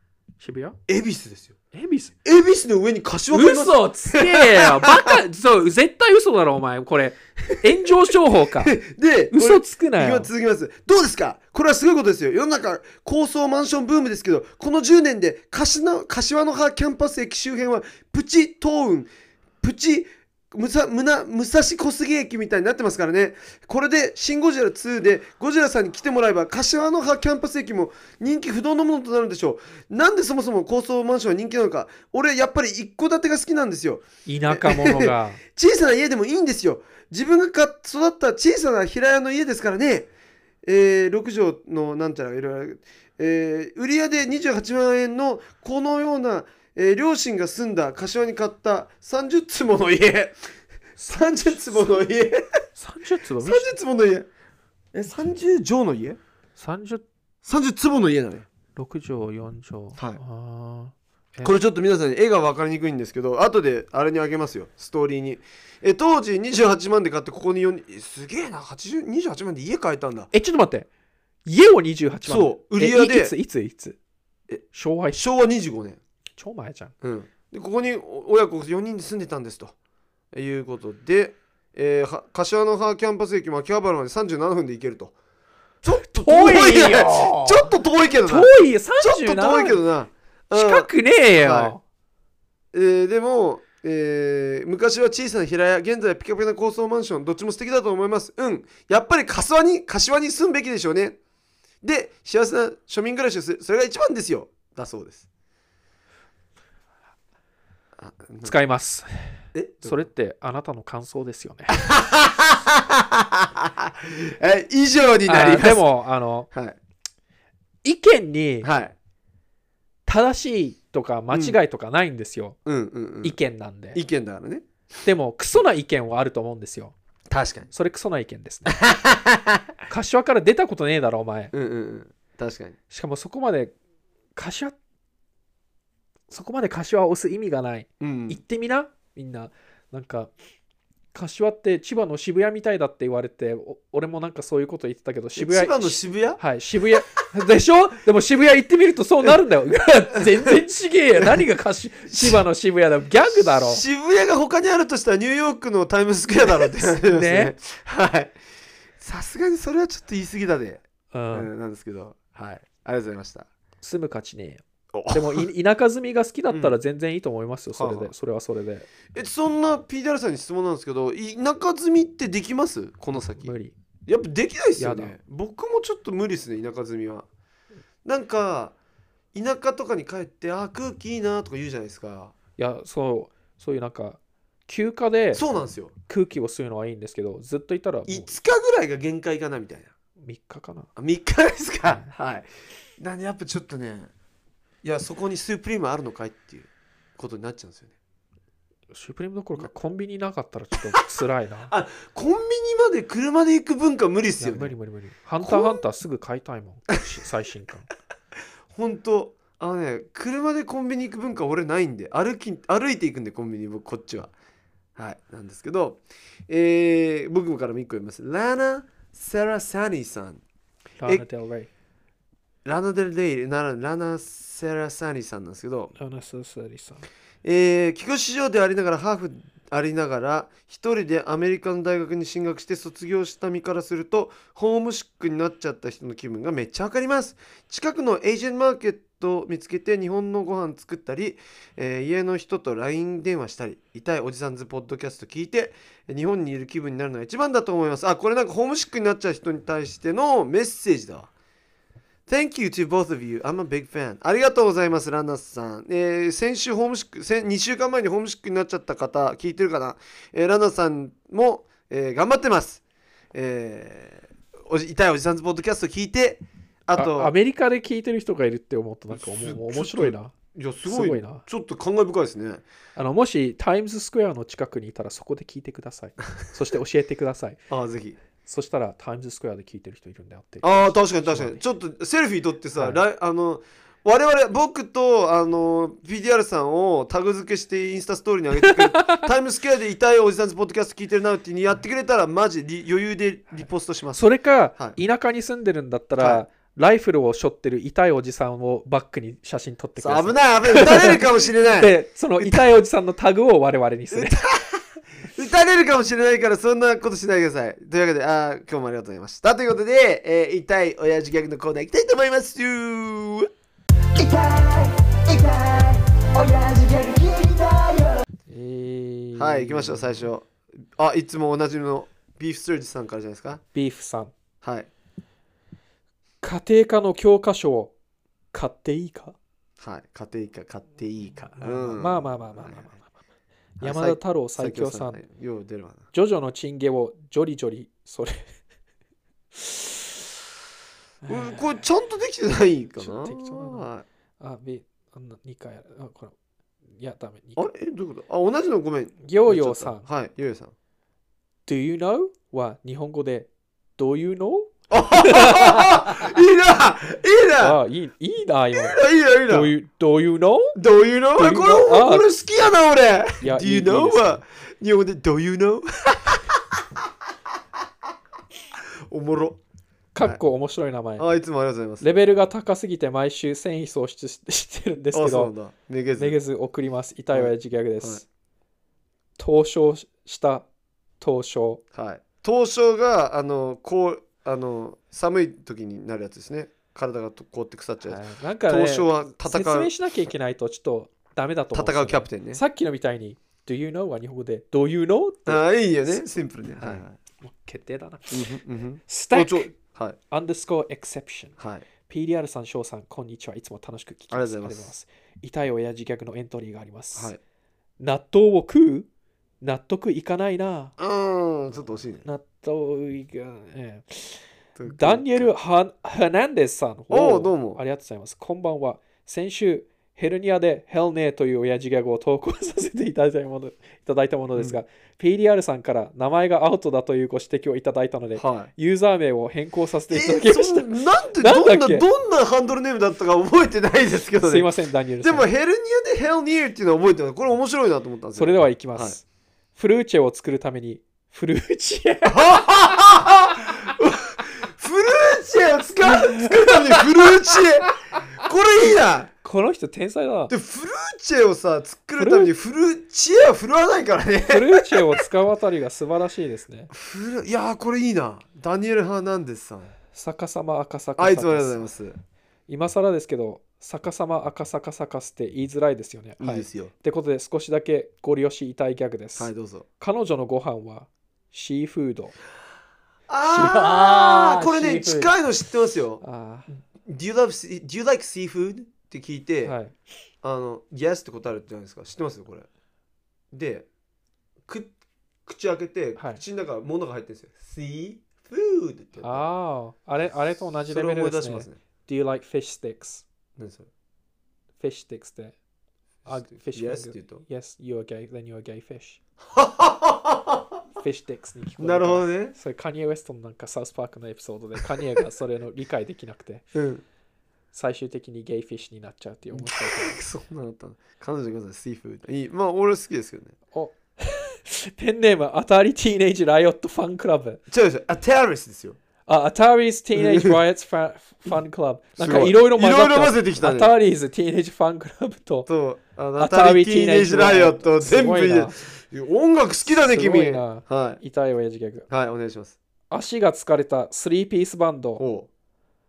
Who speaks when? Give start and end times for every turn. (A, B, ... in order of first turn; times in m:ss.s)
0:00.4-0:00.8 A
0:00.9-0:01.5 B
0:01.7-0:02.1 A
0:02.2-0:05.2 B
0:03.3-0:08.7 A
0:08.6-0:19.1 B
0:09.3-0:10.3 A
0:19.6-0:40.1 B
0:34.2-0:35.4 A
0:40.6-0:50.4 B
0:51.0-0:52.0 A
0:51.1-0:52.6 B
0:52.8-0:53.7 A
0:53.4-0:54.3 B
0:54.9-0:56.2 B
0:56.6-0:57.0 A
0:57.4-0:58.5 B
0:58.7-1:01.5 A
1:01.4-1:10.3 B
1:10.3-1:10.9 A
1:11.4-1:14.0 A
1:12.3-1:13.3 B
1:14.7-1:15.2 A
1:15.1-1:16.0 B
1:16.4-1:16.9 A
1:17.0-1:19.8 B
1:20.3-1:25.1 B
1:25.8-1:30.9 B
1:26.2-1:27.7 A
1:28.3-1:29.8 A
1:30.5-1:31.8 A
1:31.4-1:31.7 B
1:32.7-1:41.2 B
1:41.8-1:45.2 B
1:48.0-1:48.5 B
1:48.4-1:51.8 A
1:49.5-1:50.0 B
1:51.8-1:55.8 B
1:55.3-1:56.5 A
1:56.5-1:56.8 B
1:57.8-1:58.7 A
1:58.6-1:58.9 B
2:00.0-2:02.6 A
2:01.3-2:01.6 B
2:02.6-2:03.4 B
2:03.2-2:04.0 A
2:03.9-2:04.6 B
2:05.0-2:06.9 A
2:07.3-2:07.7 B
2:07.7-2:08.8 A
2:08.7-2:09.6 B
2:09.9-2:11.5 A
2:11.5-2:12.8 B
2:12.9-2:13.7 A
2:14.4-2:14.8 A
2:16.3-2:20.3 A
2:18.0-2:18.4 B
2:21.1-2:33.8 A
2:25.3-2:26.4 B
2:32.1-2:32.4 B
2:33.5-2:38.3 B
2:36.8-2:37.5 A
2:39.0-2:43.5 B
2:41.1-2:41.5 A
2:43.8-2:48.9 A
2:44.9-2:45.5 B
2:46.5-2:46.8 B
2:47.7-2:48.1 B
2:49.1-2:53.5 B
2:53.4-2:53.7 A
2:54.1-2:57.3 B
2:54.8-2:55.2 A
2:58.0-2:58.7 B
2:59.3-3:02.3 B
3:02.6-3:05.4 A
3:05.3-3:05.9 B
3:06.1-3:08.3 A
3:08.1-3:09.9 B
3:10.2-3:10.9 A
3:11.0-3:14.1 B
3:11.8-3:12.1 A
3:14.8-3:18.0 B
3:18.9-3:21.7 A
3:21.7-3:24.7 B
3:24.4-3:27.9 A
3:25.4-3:25.8 B
3:28.7-3:34.3 B
3:35.0-3:40.4 B
3:41.0-3:41.7 A
3:42.6-3:45.9 B
3:45.9-3:47.0 A
3:47.4-4:11.3 B
4:12.3-4:22.8 B
4:23.3-4:27.3 B
4:26.9-4:30.3 A
4:29.1-4:32.6 B
4:30.8-4:31.4 A
4:33.0-4:37.6 A
4:37.7-4:38.2 B
4:38.4-4:41.6 A
4:40.6-4:54.2 B
4:42.8-4:43.0 A
4:48.6-4:49.3 A
4:54.1-5:04.4 A
4:56.2-4:56.4 B
5:00.0-5:02.7 B
5:04.1-5:13.5 B
5:14.1-5:18.2 C
5:18.5-5:20.2 A
5:19.4-5:23.6 B
5:23.7-5:24.3 A
5:24.6-5:24.9 B
5:26.4-5:27.9 A
5:28.5-5:29.4 A
5:29.8-5:32.8 B
5:31.6-5:33.1 A
5:33.8-5:36.1 B
5:33.8-5:35.2 A
5:36.1-5:38.4 A
5:39.5-5:40.2 A
5:41.2-5:41.8 A
5:41.3-5:44.0 B
5:43.0-5:43.8 A
5:44.4-5:46.3 A
5:47.0-5:47.7 A
5:47.6-5:50.7 B
5:49.2-5:50.0 A
5:51.7-5:56.4 A
5:54.9-5:57.8 B
5:57.6-6:00.8 A
5:58.7-5:59.7 B
6:00.7-6:07.1 B
6:01.4-6:02.3 A
6:03.4-6:04.4 A
6:08.8-6:09.6 B
6:10.1-6:11.3 A
6:11.2-6:12.1 B
6:12.0-6:15.5 A
6:15.1-6:16.4 B
6:16.2-6:18.2 A
6:17.3-6:18.2 B
6:19.4-6:20.7 A
6:21.2-6:21.8 A
6:21.9-6:29.9 B
6:28.0-6:35.6 A
6:31.7-6:32.6 B
6:35.5-6:37.1 B
6:36.8-6:38.5 A
6:38.3-6:40.2 B
6:39.1-6:39.7 A
6:40.3-6:41.5 A
6:41.6-6:41.8 B
6:42.1-6:47.3 A
6:44.3-6:44.9 B
6:47.1-6:47.4 B
6:48.0-6:49.1 A
6:49.6-6:50.9 A
6:51.0-6:52.2 B
6:52.2-7:12.1 A
6:54.8-6:55.5 B
6:57.1-6:57.8 B
7:08.4-7:08.7 B
7:10.1-7:14.7 B
7:14.4-7:15.5 A
7:15.2-7:19.2 B
7:18.4-7:19.2 A
7:19.8-7:22.6 A
7:22.2-7:27.9 B
7:26.0-7:27.9 A
7:28.4-7:29.3 B
7:29.3-7:30.5 A
7:30.5-7:35.2 B
7:32.2-7:32.5 A
7:34.5-7:36.9 A
7:36.9-7:39.9 B
7:40.1-7:41.8 A
7:41.2-7:42.2 B
7:42.7-7:52.3 A
7:46.4-7:46.9 B
7:49.4-7:49.8 B
7:53.3-7:56.2 B
7:53.6-7:55.3 C
7:56.2-7:56.7 A
7:56.9-7:59.7 B
7:59.6-7:59.9 A
8:00.4-8:02.7 B
8:03.5-8:03.9 B
8:04.7-8:04.9 B
8:05.4-8:09.4 B
8:06.2-8:06.4 A
8:09.2-8:13.2 A
8:10.9-8:11.8 B
8:13.6-8:13.9 B
8:14.8-8:15.6 A
8:16.2-8:19.2 A
8:16.3-8:17.4 B
8:19.5-8:20.6 B
8:21.0-8:26.6 A
8:21.8-8:22.5 B
8:26.7-8:27.0 B
8:27.7-8:30.2 A
8:29.5-8:33.5 B
8:33.7-8:37.6 A
8:37.7-8:39.0 B
8:39.3-8:45.7 A
8:40.1-8:40.6 B
8:42.2-8:43.9 B
8:45.7-8:51.2 B
8:46.4-8:48.7 A
8:49.8-8:52.1 A
8:52.1-8:52.8 B
8:53.1-8:55.2 A
8:55.2-8:55.5 B